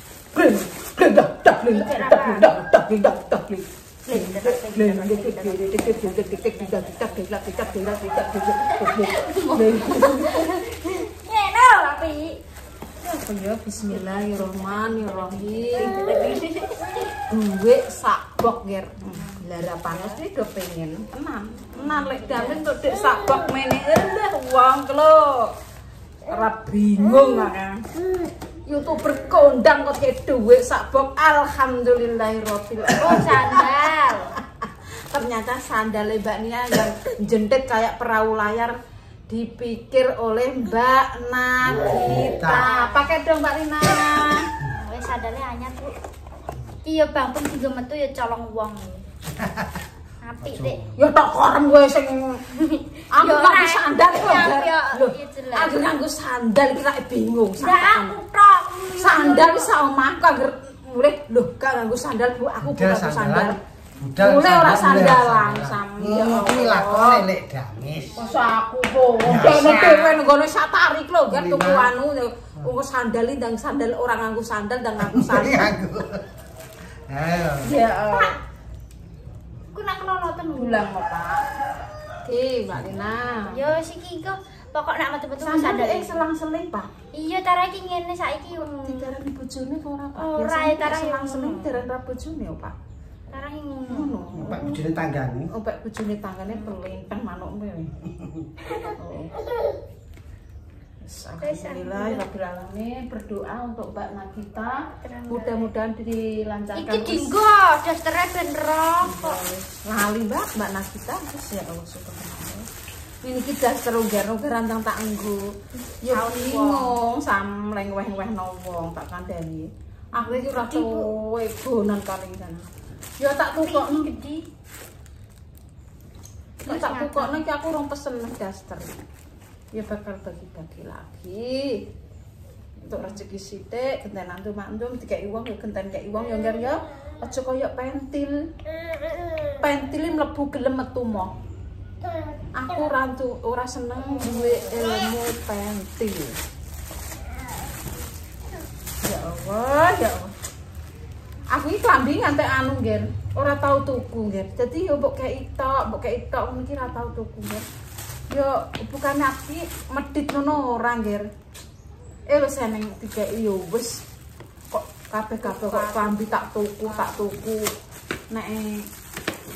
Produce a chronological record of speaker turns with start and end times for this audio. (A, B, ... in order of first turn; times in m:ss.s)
0:00.3-0:10.4 A
0:01.7-0:03.1 B
0:04.0-0:12.4 B
0:13.0-0:16.0 A
0:13.9-0:17.0 B
0:17.3-0:25.5 A
0:19.1-0:20.2 B
0:21.8-0:22.6 B
0:26.3-0:27.8 A
0:28.7-0:33.6 A
0:33.0-0:34.4 B
0:35.1-0:38.7 A
0:39.3-0:44.5 A
0:41.6-0:42.7 C
0:42.4-0:43.1 B
0:44.7-0:46.0 B
0:46.8-0:49.0 B
0:49.4-0:49.7 C
0:50.2-0:50.8 B
0:50.4-0:50.9 C
0:51.0-0:52.4 A
0:52.6-0:55.8 B
0:53.1-0:58.2 A
0:57.6-0:59.7 B
0:59.0-1:03.6 A
1:02.6-1:08.3 C
1:04.2-1:07.3 A
1:08.1-1:15.7 A
1:09.2-1:10.2 C
1:11.3-1:11.9 C
1:15.0-1:16.2 C
1:17.1-1:17.7 C
1:17.6-1:18.4 A
1:17.7-1:18.4 B
1:19.7-1:20.9 B
1:20.5-1:21.4 A
1:22.2-1:23.6 A
1:23.3-1:26.2 B
1:25.4-1:26.9 A
1:27.1-1:29.1 B
1:28.5-1:32.7 A
1:30.2-1:31.8 B
1:33.3-1:34.2 B
1:33.9-1:34.8 A
1:34.3-1:35.5 C
1:35.5-1:37.9 A
1:39.0-1:39.3 A
1:41.0-1:47.3 A
1:41.4-1:42.2 B
1:45.0-1:45.7 B
1:46.7-1:49.4 B
1:49.0-1:52.6 A
1:53.2-1:55.5 A
1:55.8-1:57.0 B
1:56.0-2:02.6 A
2:00.2-2:01.1 B
2:03.2-2:04.0 A
2:03.6-2:04.4 B
2:06.6-2:07.4 B
2:06.6-2:09.0 A
2:09.7-2:11.8 A
2:12.8-2:18.4 A
2:13.0-2:13.2 B
2:19.6-2:21.3 A
2:22.6-2:26.4 A
2:29.0-2:30.3 A
2:31.5-2:37.6 A
2:38.3-2:41.3 A
2:42.3-2:44.0 A
2:44.7-2:47.7 A
2:45.4-2:47.2 B
2:48.3-2:48.8 A